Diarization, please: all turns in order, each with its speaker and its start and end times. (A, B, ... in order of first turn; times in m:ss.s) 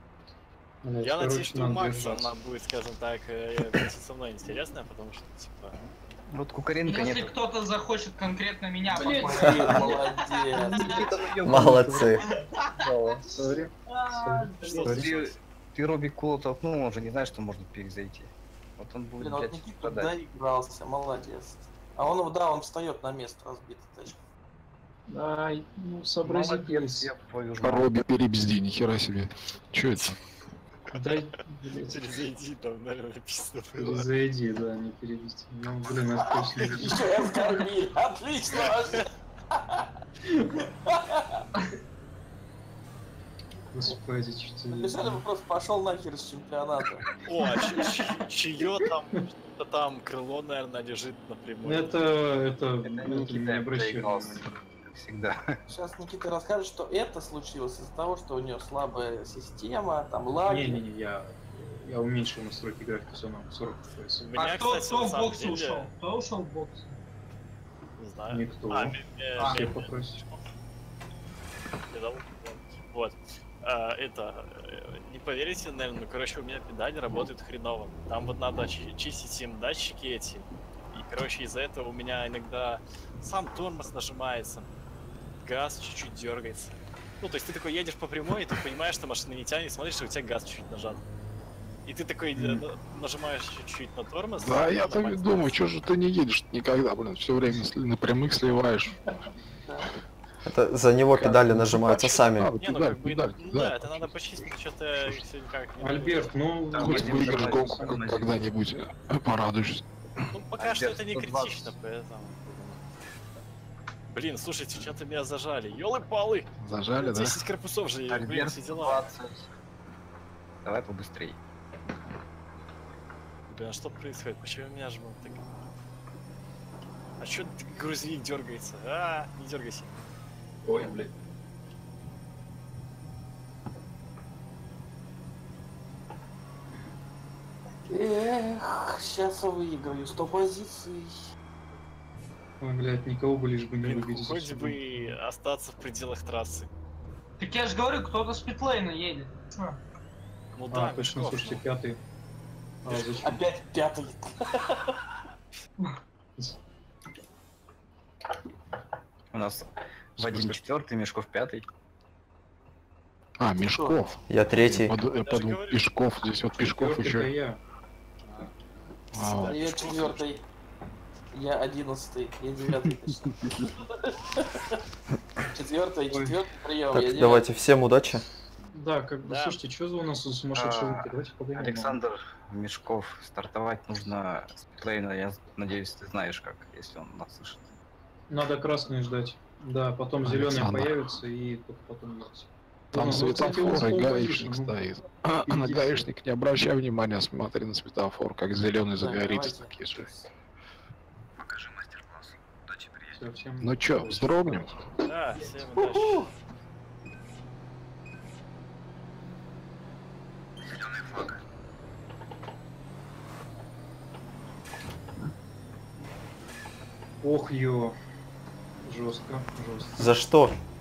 0:00.8-0:02.3 A
0:01.0-0:05.8 B
0:06.3-0:07.4 C
0:06.8-0:11.1 D
0:08.9-0:10.0 A
0:09.4-0:11.1 E
0:09.4-0:09.8 F
0:10.7-0:11.0 A
0:10.7-0:12.3 C
0:11.4-0:12.2 F
0:12.2-0:12.9 D
0:12.8-0:13.2 C
0:13.2-0:15.1 A
0:13.4-0:15.2 D
0:14.6-0:20.1 C
0:19.2-0:24.2 E
0:25.1-0:27.1 A
0:26.2-0:27.9 C
0:27.6-0:30.2 G
0:30.9-0:32.1 A
0:31.9-0:34.1 B
0:33.8-0:37.2 A
0:36.7-0:39.9 E
0:40.8-0:41.4 E
0:43.7-0:45.2 A
0:44.7-0:47.1 E
0:47.2-0:52.1 B
0:47.6-0:48.2 A
0:51.6-0:54.5 A
0:52.8-0:55.6 C
0:55.7-1:00.8 E
1:00.5-1:04.3 A
1:04.2-1:05.9 B
1:04.4-1:06.9 D
1:08.0-1:10.5 B
1:08.3-1:10.2 A
1:09.4-1:09.7 D
1:11.9-1:24.7 B
1:25.4-1:31.0 B
1:31.8-1:35.6 B
1:32.4-1:32.7 A
1:34.4-1:38.9 G
1:39.7-1:39.9 E
1:40.4-1:42.5 F
1:41.1-1:45.2 G
1:42.6-1:46.4 B
1:45.8-1:48.0 A
1:46.7-1:48.4 C
1:46.8-1:50.3 G
1:50.3-1:52.8 B
1:50.6-1:51.7 C
1:54.1-1:56.5 B
1:56.6-1:57.4 G
1:57.0-1:59.0 B
1:58.1-1:59.5 C
2:00.6-2:01.4 C
2:03.5-2:05.5 B
2:07.2-2:09.9 B
2:10.6-2:11.1 A
2:17.9-2:21.3 E
2:22.6-2:25.2 A
2:23.8-2:26.7 B
2:27.4-2:29.8 D
2:30.5-2:31.6 B
2:30.7-2:32.0 A
2:32.8-2:33.5 A
2:32.9-2:33.4 B
2:33.2-2:35.0 E
2:39.3-2:39.7 C
2:40.2-2:40.6 G
2:40.2-2:41.6 C
2:43.4-2:47.3 G
2:43.6-2:44.0 E
2:44.3-2:45.0 F
2:45.2-2:45.9 B
2:46.7-2:47.6 A
2:48.2-2:48.5 B
2:49.1-2:49.6 G
2:49.1-2:50.2 B
2:49.4-2:50.4 E
2:51.3-2:54.8 E
2:55.5-2:57.6 E
2:56.1-2:56.4 A
2:56.9-2:58.2 F
2:58.7-3:02.0 A
2:59.3-2:59.6 B
3:00.5-3:07.8 C
3:08.3-3:14.8 A
3:10.2-3:11.1 G
3:12.9-3:20.1 G
3:15.4-3:16.1 A
3:19.0-3:20.3 E
3:21.4-3:23.2 C
3:23.1-3:24.9 A
3:23.6-3:24.8 G
3:25.0-3:26.3 B
3:25.9-3:26.3 E
3:30.8-3:31.4 C
3:37.2-3:38.0 A
3:38.8-3:40.2 A
3:40.0-3:40.6 F